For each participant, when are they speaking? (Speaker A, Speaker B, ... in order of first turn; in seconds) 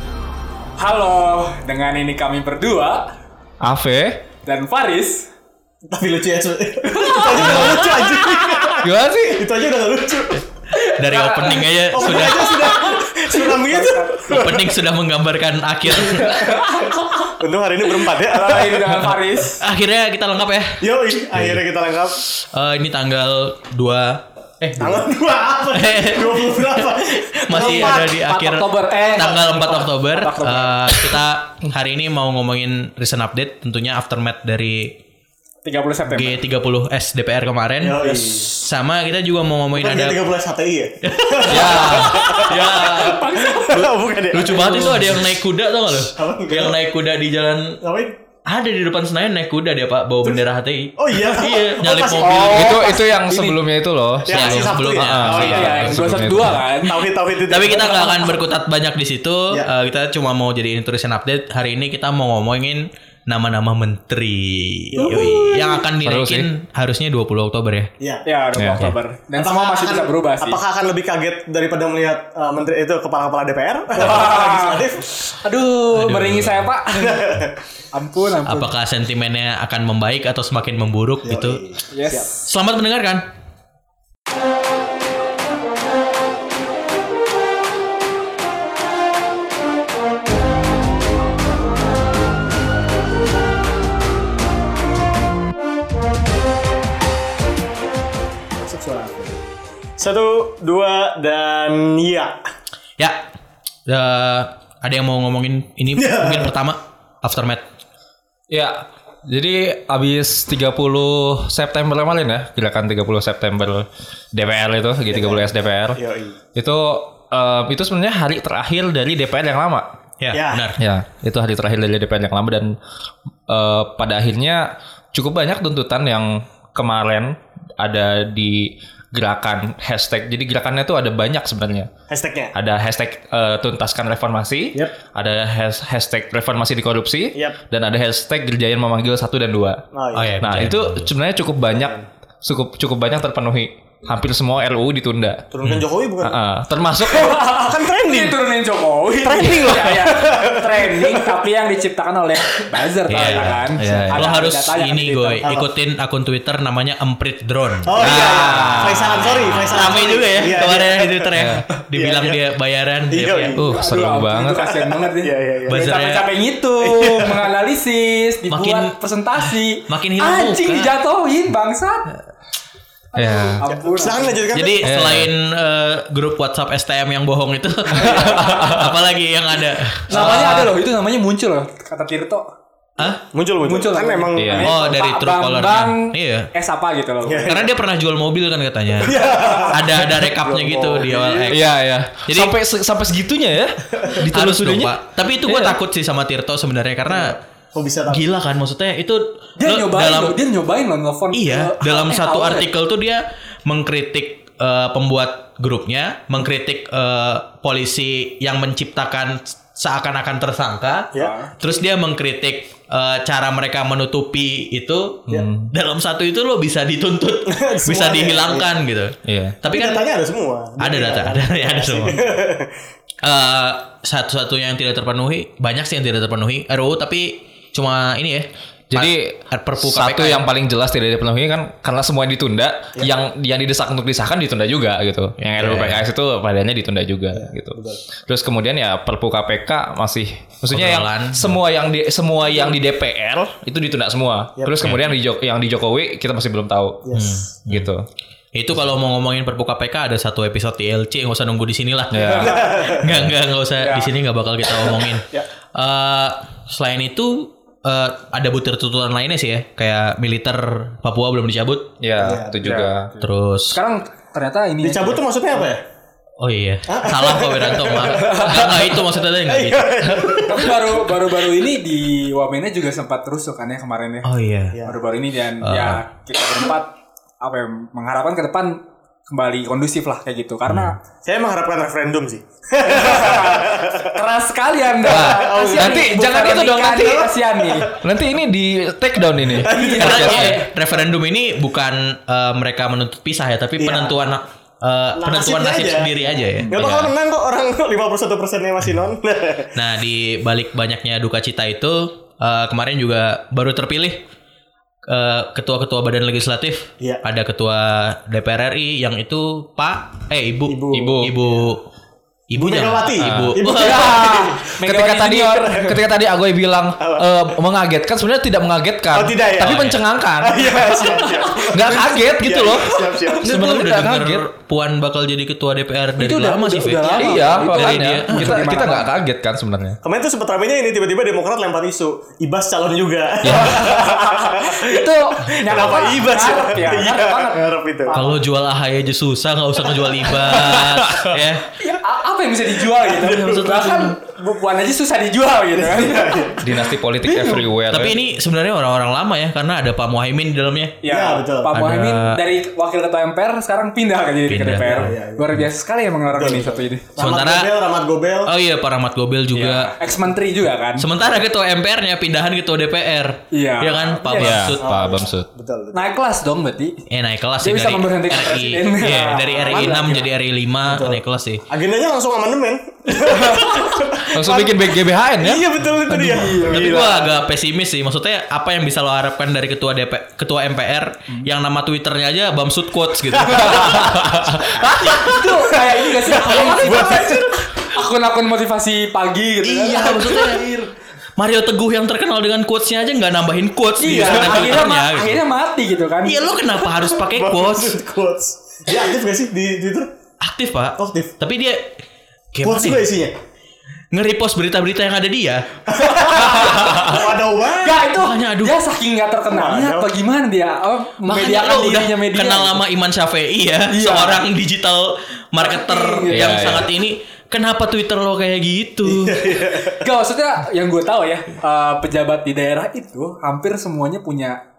Speaker A: 0.8-3.0, 4.4-5.3, 6.9-8.8, 10.7-14.4, 16.2-17.3, 18.0-19.6, 27.5-31.2, 35.6-36.4, 42.1-43.8, 52.2-52.6, 55.3-57.1, 68.2-70.6, 73.9-77.4, 77.9-78.7, 81.9-82.2, 147.1-155.6, 163.6-172.1, 173.1-174.4, 180.1-182.4, 183.6-187.6, 199.6-202.7, 211.1-211.5, 253.8-254.1, 263.7-265.2, 268.2-268.6, 270.4-274.3, 274.8-281.0, 282.8-287.9, 289.7-290.7, 313.6-316.0, 320.9-321.7, 326.2-329.1, 333.5-338.4, 341.8-346.6, 347.3-347.6, 351.0-357.1, 359.5-361.1, 363.5-364.6, 365.9-367.0, 367.6-370.3, 373.3-373.7, 376.3-377.1, 385.1-390.9, 394.0-396.5, 406.1-407.0, 407.8-412.8, 413.9-414.4, 415.6-416.8, 420.0-424.6
Speaker B: 3.6-4.2, 7.5-7.7, 8.8-9.4, 41.5-42.1, 52.5-56.6, 66.0-66.5, 68.5-68.9, 108.5-116.0, 116.5-119.9, 120.8-122.8, 123.5-131.9, 132.5-139.8, 140.4-145.4, 146.2-147.4, 153.8-154.3, 158.0-159.2, 161.3-161.6, 163.5-164.7, 173.1-173.6, 174.8-175.3, 178.0-178.9, 184.3-184.7, 191.5-195.8, 215.3-215.7, 219.2-219.6, 228.9-247.1, 247.7-248.0, 252.1-252.6, 262.0-263.1, 285.0-287.2, 288.0-290.6, 310.9-311.3, 313.2-313.5, 314.8-321.1, 321.6-324.4, 327.1-330.0, 333.4-333.8, 346.6-348.2, 364.4-365.4, 374.3-375.6, 383.5-385.2, 416.3-416.9
Speaker C: 5.9-10.4, 11.9-14.8, 16.1-19.1, 20.8-22.2, 24.7-28.1, 37.8-38.5, 39.7-45.2, 46.0-46.8, 47.8-48.2, 51.0-53.6, 54.2-58.4, 64.9-65.9, 68.0-68.2, 69.3-75.1, 77.0-77.6, 81.2-82.3, 98.6-99.4, 100.0-102.4, 106.0-106.5, 115.1-116.4, 120.3-120.7, 132.1-132.5, 139.9-140.5, 141.7-142.1, 145.5-146.4, 147.2-148.4, 149.2-151.4, 157.8-162.4, 163.1-163.8, 164.5-165.8, 166.8-167.3, 173.7-175.0, 183.2-184.9, 187.2-187.7, 189.0-191.6, 197.1-198.2, 217.4-218.7, 219.7-222.8, 237.3-238.0, 244.6-244.9, 247.0-247.4, 252.3-253.2, 262.2-263.2, 264.8-265.8, 266.9-271.1, 274.7-275.0, 281.2-284.2, 285.0-288.0, 289.6-290.6, 293.8-294.2, 295.2-299.7, 310.7-311.8, 312.5-314.7, 317.0-317.3, 319.1-323.6, 330.0-338.2, 340.5-341.0, 343.1-343.8, 345.7-346.8, 351.1-351.7, 354.9-355.5, 356.3-358.5, 364.8-366.1, 370.8-377.3, 383.4-387.7, 394.2-394.7, 397.0-400.1, 401.0-401.3, 402.6-403.3, 405.9-408.0, 409.5-410.1, 419.0-420.0
Speaker D: 11.0-12.8, 14.3-16.5, 19.6-21.6, 22.2-25.1, 25.7-35.0, 36.1-40.2, 41.0-47.8, 48.5-53.0, 54.3-56.1, 57.5-67.9, 75.9-76.7, 78.4-81.7, 82.4-83.3, 103.0-103.2, 103.9-107.7, 120.2-120.8, 140.1-141.1, 153.1-163.6, 165.7-166.4, 168.5-170.9, 174.5-180.8, 184.6-186.5, 187.4-191.7, 192.2-192.6, 194.2-197.4, 198.1-200.4, 201.3-220.1, 220.8-222.2, 223.2-230.4, 235.4-236.0, 240.7-241.6, 244.8-245.2, 247.1-247.9, 248.5-261.9, 263.2-263.8, 266.4-270.4, 274.2-274.8, 275.6-276.0, 280.7-280.9, 289.5-297.1, 299.7-304.2, 305.1-311.9, 312.5-314.2, 319.7-320.0, 323.4-328.9, 338.1-341.7, 343.1-344.1, 347.9-351.0, 351.7-352.4, 354.5-355.1, 357.2-357.7, 358.4-359.9, 361.0-364.9, 367.1-371.6, 376.1-385.2, 386.5-387.0, 389.6-390.7, 391.4-395.4, 396.2-398.0, 400.4-402.0, 402.5-403.1, 404.1-405.6, 406.4-407.2, 408.2-408.8, 411.3-419.7